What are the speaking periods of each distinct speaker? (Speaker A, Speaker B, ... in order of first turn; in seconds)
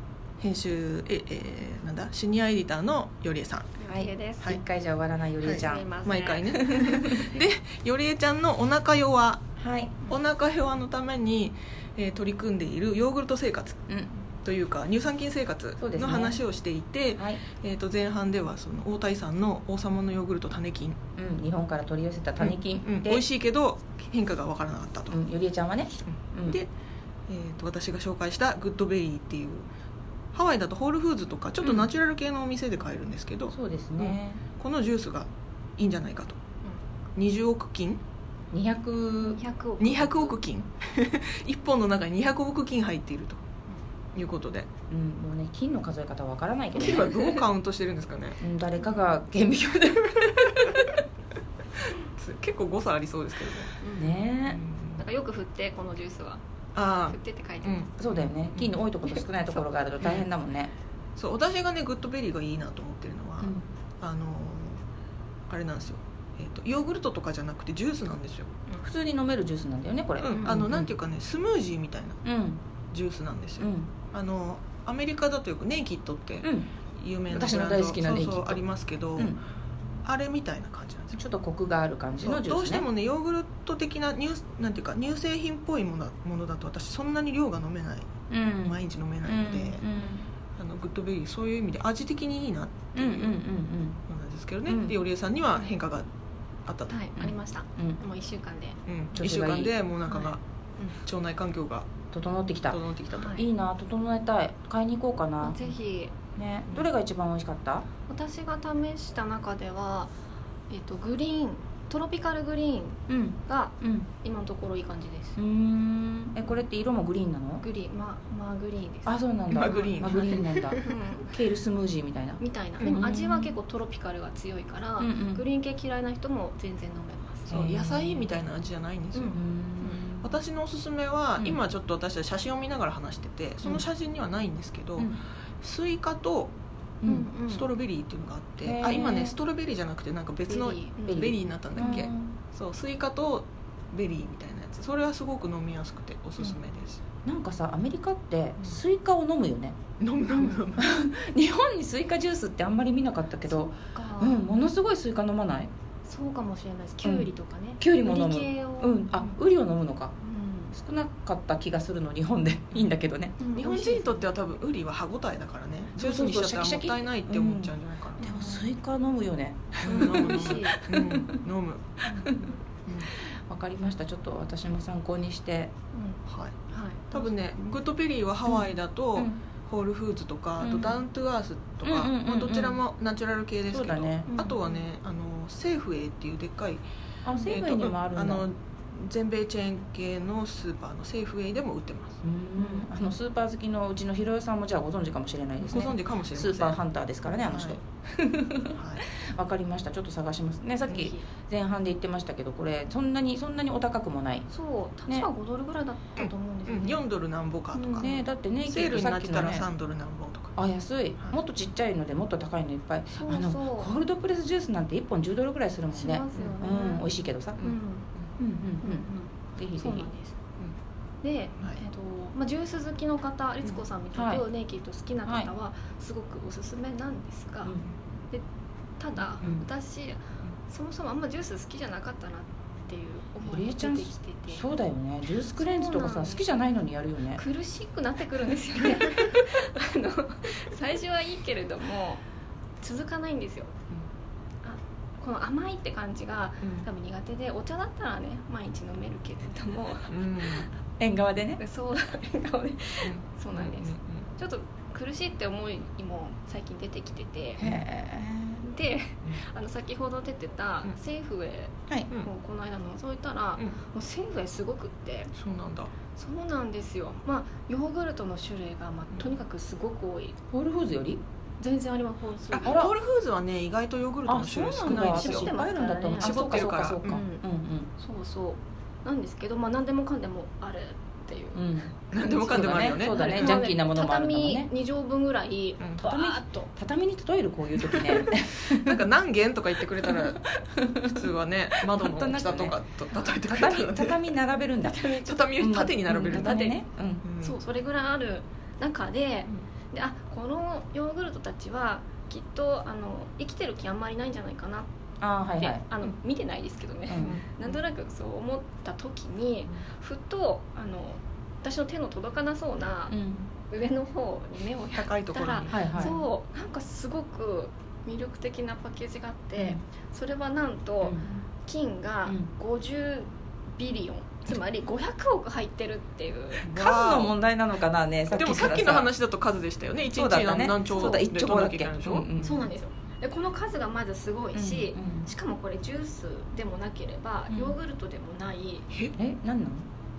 Speaker A: 0.4-3.8, 5.4-9.4, 10.1-13.8, 14.3-21.0, 22.4-25.2, 26.1-26.7, 27.3-29.6, 30.3-36.4, 37.1-38.0, 39.8-43.4, 44.1-44.7, 46.7-48.4, 52.1-53.7, 54.4-55.0, 56.7-58.8, 60.0-60.3, 61.2-64.8, 65.5-68.5, 70.2-72.2, 72.9-79.4, 80.0-81.2, 82.2-88.1, 88.6-89.9, 90.5-93.4, 94.1-96.1, 96.7-97.0, 98.8-100.4, 101.0-101.9, 102.7-103.4, 119.5-120.8, 122.8-123.0, 127.5-129.4, 130.1-136.5, 137.5-147.0, 150.0-150.9, 163.5-168.2, 169.8-172.0, 172.8-173.1, 176.2-186.8, 187.4-192.2, 195.7-196.8, 197.3-197.8, 198.7-199.0, 206.2-208.1, 208.6-210.5, 217.6-218.3, 246.6-246.9, 250.1-250.7, 253.0-254.2, 265.3-265.9, 272.5-275.5, 276.2-277.2, 282.1-283.6, 288.5-290.5, 291.0-294.2, 295.1-297.6, 307.2-307.8, 314.9-316.1, 326.6-327.4, 328.3-332.4, 338.9-339.1
Speaker B: 3.8-4.4, 5.6-6.6, 39.2-40.4, 48.8-49.1, 53.8-54.2, 55.0-56.4, 57.1-57.9, 70.3-70.6, 96.9-98.8, 100.0-101.0, 103.1-103.5, 105.4-106.2, 108.1-110.1, 110.7-115.4, 117.6-121.3, 122.4-127.6, 129.1-130.0, 137.0-137.7, 140.5-142.1, 150.3-150.7, 153.5-154.4, 156.0-159.4, 160.2-160.7, 163.4-164.2, 168.2-168.7, 169.8-170.8, 172.1-172.4, 175.9-177.3, 184.3-184.8, 192.6-193.0, 200.8-201.3, 204.5-207.0, 207.7-208.2, 213.1-213.9, 215.9-217.1, 217.6-218.1, 218.8-220.3, 221.2-227.8, 229.0-234.7, 235.5-236.5, 237.3-242.2, 242.8-243.7, 244.6-250.7, 251.6-257.7, 258.6-265.3, 266.1-270.4, 271.6-272.9, 274.6-277.4, 278.0-286.7, 294.8-295.5, 296.1-296.7, 297.4-304.9, 305.6-326.6, 330.9-331.3, 332.4-338.9
Speaker C: 3.9-5.8, 6.5-7.3, 9.6-10.0, 15.8-16.4, 17.1-17.4, 21.1-23.2, 25.1-26.6, 33.5-34.4, 38.5-39.4, 44.9-47.4, 48.4-51.0, 54.0-54.6, 58.0-60.7, 63.4-63.7, 68.8-70.9, 72.2-72.6, 73.6-73.9, 76.4-76.7, 77.3-78.6, 81.1-82.9, 88.3-90.2, 93.0-94.0, 94.7-95.0, 97.2-98.0, 99.2-99.7, 102.1-102.8, 103.3-105.6, 106.3-107.9, 113.1-114.1, 115.4-117.6, 119.0-123.5, 125.0-125.4, 127.5-128.4, 129.3-130.3, 137.0-137.3, 138.6-139.4, 141.1-142.3, 147.2-149.8, 150.8-155.7, 157.0-157.3, 157.8-160.1, 160.7-163.4, 166.0-171.4, 172.1-172.6, 173.1-175.7, 178.5-179.4, 180.6-181.0, 181.8-182.8, 183.7-184.3, 187.2-188.4, 192.2-204.5, 208.0-209.7, 210.6-217.7, 218.4-220.1, 224.1-224.4, 225.2-225.5, 233.5-237.4, 251.0-251.6, 257.6-258.6, 270.5-271.2, 272.6-272.9, 274.3-277.9, 281.5-284.7, 286.0-289.0, 290.1-291.2, 291.9-292.8, 293.4-297.2, 305.2-305.8, 307.1-307.4, 313.1-313.5, 315.7-316.2, 319.6-319.8, 326.6-329.1, 330.1-332.7, 334.5-335.3, 337.5-337.8, 339.1-339.9